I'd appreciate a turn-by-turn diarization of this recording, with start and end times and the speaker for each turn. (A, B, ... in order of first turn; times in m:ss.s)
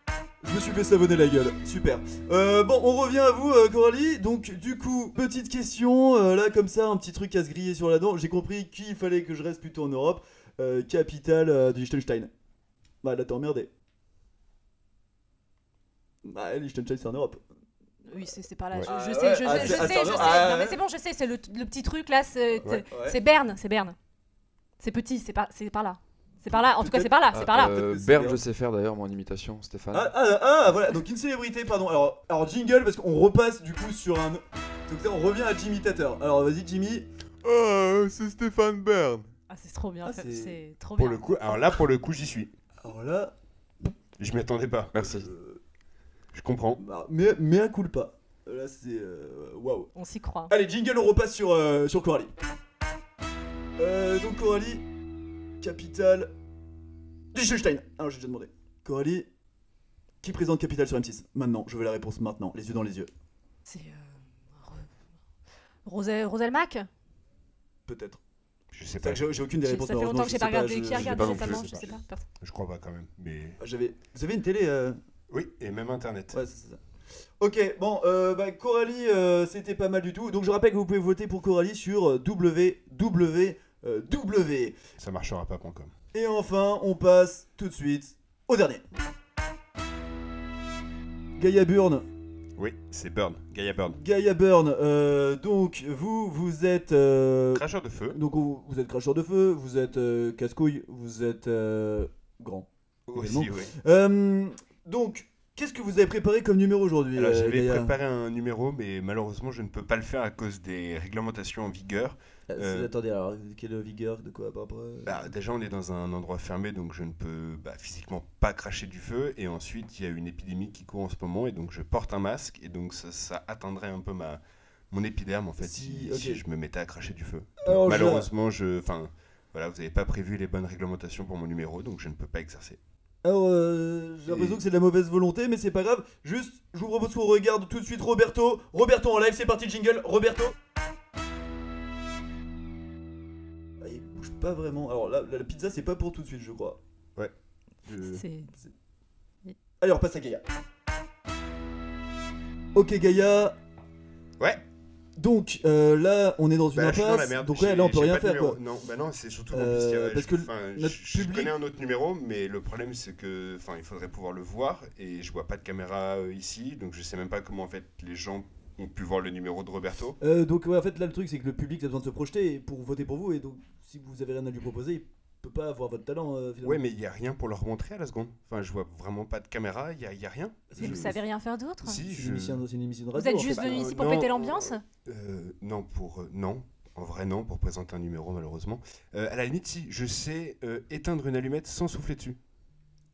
0:00.4-0:12.3 A
0:13.0-0:13.7 A
0:16.2-0:17.4 A
0:18.1-0:24.0 B
0:18.9-0:20.8 A
0:19.5-0:20.4 C
0:22.7-0:23.2 A
0:24.8-0:27.8 B
0:26.5-0:28.4 A
0:27.3-0:30.1 D
0:29.9-0:37.1 A
0:37.4-0:39.2 D
0:39.5-0:41.8 B
0:40.0-0:40.6 A
0:41.0-0:42.5 C
0:42.8-0:43.3 A
0:44.2-0:45.0 C
0:44.9-0:45.3 D
0:45.0-0:45.6 A
0:46.3-0:46.8 C
0:46.8-0:49.9 A
0:49.9-0:50.5 B
0:50.5-0:52.3 A
0:53.8-0:54.9 A
0:55.6-0:56.3 A
0:57.3-0:59.3 A
1:00.2-1:03.1 A
1:03.7-1:04.9 B
1:05.8-1:06.9 B
1:07.9-1:08.2 A
1:08.7-1:09.3 C
1:09.0-1:11.5 A
1:09.6-1:12.2 B
1:10.9-1:11.6 D
1:11.5-1:13.6 C
1:13.6-1:15.0 A
1:15.3-1:16.4 C
1:16.3-1:16.8 A
1:17.4-1:24.8 A
1:25.0-1:25.9 C
1:26.1-1:28.8 A
1:31.4-1:32.1 A
1:32.6-1:34.0 C
1:33.9-1:47.9 A
1:37.5-1:38.2 C
1:43.1-1:43.7 C
1:47.1-1:52.9 C
1:52.5-1:55.3 A
1:55.1-2:12.8 C
2:05.6-2:06.4 A
2:07.6-2:08.3 A
2:13.2-2:20.6 A
2:14.3-2:14.6 C
2:23.8-2:26.8 A
2:27.9-2:28.2 C
2:28.0-2:28.5 B
2:29.8-2:30.4 A
2:32.7-2:33.6 A
2:35.2-2:38.6 A
2:36.7-2:50.2 C
2:39.5-2:41.6 A
2:50.2-2:56.8 A
2:56.6-3:01.2 C
3:00.7-3:01.2 A
3:00.8-3:02.0 B
3:01.8-3:02.6 C
3:02.0-3:03.9 A
3:03.1-3:04.8 B
3:03.5-3:12.4 C